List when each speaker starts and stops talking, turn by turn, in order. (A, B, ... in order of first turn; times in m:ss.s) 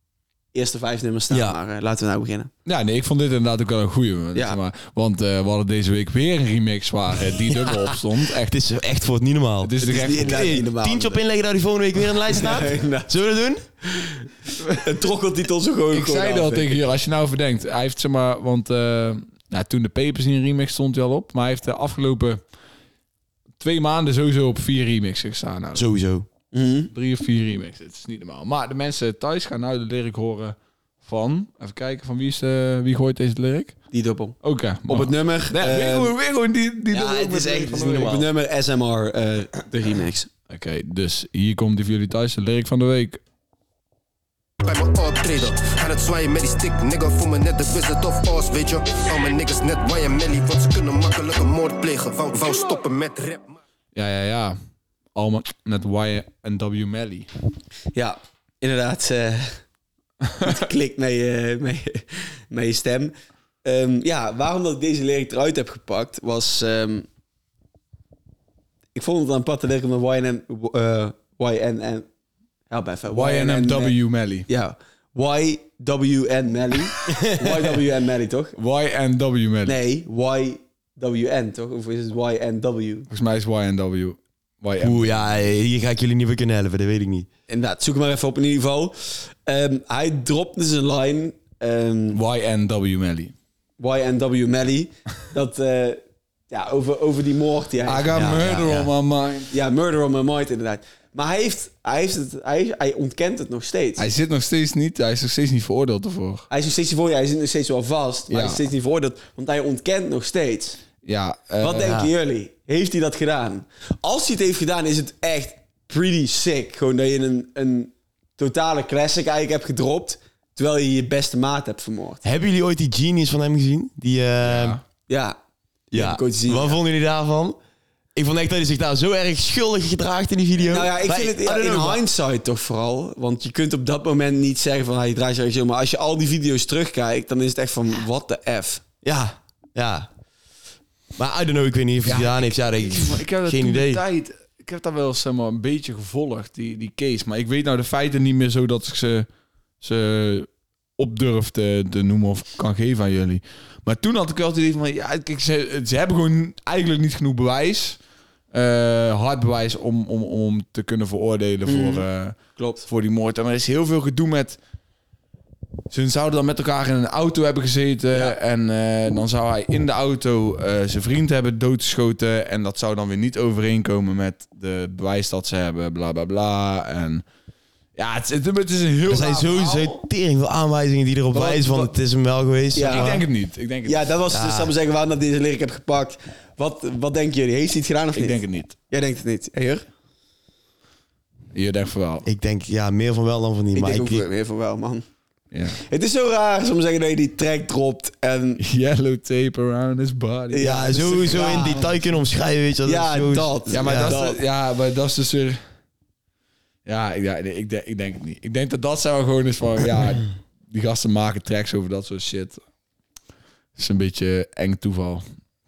0:00.5-0:02.5 A
0:01.3-0:01.6 B
0:02.7-0:08.6 C
0:08.5-0:13.6 B
0:09.6-0:10.6 C
0:09.8-0:11.2 A
0:12.3-0:13.1 A
0:13.9-0:16.8 A
0:15.9-0:22.4 C
0:23.6-0:25.8 C
0:25.8-0:26.3 B
0:26.5-0:26.9 A
0:26.9-0:33.8 C
0:33.9-0:34.4 A
0:34.4-0:38.0 C
0:34.9-0:36.1 A
0:36.9-0:38.3 B
0:36.9-0:40.3 A
0:40.5-0:43.2 C
0:44.6-0:53.6 D
0:54.0-0:54.6 C
0:55.2-0:57.3 C
0:57.9-0:59.6 A
1:00.3-1:00.6 C
1:00.4-1:03.1 A
1:03.6-1:07.1 A
1:09.0-1:12.1 A
1:12.7-1:18.6 A
1:13.1-1:14.5 C
1:17.1-1:17.6 B
1:18.6-1:19.8 C
1:19.7-1:23.1 A
1:23.1-1:25.5 C
1:24.8-1:27.3 B
1:27.5-1:32.2 A
1:32.1-1:33.3 C
1:33.8-1:38.1 A
1:37.8-1:39.5 C
1:38.1-1:38.9 B
1:39.5-1:44.1 A
1:44.0-1:46.5 C
1:46.5-1:50.8 A
1:48.3-1:48.6 C
1:51.0-1:52.0 C
1:51.6-2:02.2 A
1:51.8-1:52.1 B
2:02.2-2:04.8 B
2:04.4-2:04.8 C
2:05.1-2:05.4 A
2:05.9-2:06.8 A
2:05.9-2:07.6 B
2:08.2-2:12.0 B
2:10.7-2:18.8 A
2:19.0-2:20.1 B
2:21.2-2:24.0 B
2:22.0-2:29.3 C
2:29.8-2:38.0 C
2:38.5-2:44.6 C
2:41.7-2:42.1 A
2:42.6-2:42.8 A
2:45.9-2:57.2 C
2:58.0-3:00.0 C
2:59.1-3:03.2 B
3:01.3-3:01.9 C
3:02.8-3:03.2 A
3:02.8-3:04.0 C
3:03.9-3:09.8 A
3:04.3-3:04.7 B
3:08.2-3:08.8 C
3:11.5-3:12.3 C
3:12.2-3:14.2 B
3:13.8-3:15.0 A
3:15.5-3:15.8 C
3:15.9-3:18.6 A
3:18.6-3:22.0 C
3:20.5-3:22.0 A
3:20.6-3:24.2 B
3:22.8-3:24.4 A
3:23.7-3:25.6 C
3:26.9-3:32.6 C
3:33.8-3:35.2 C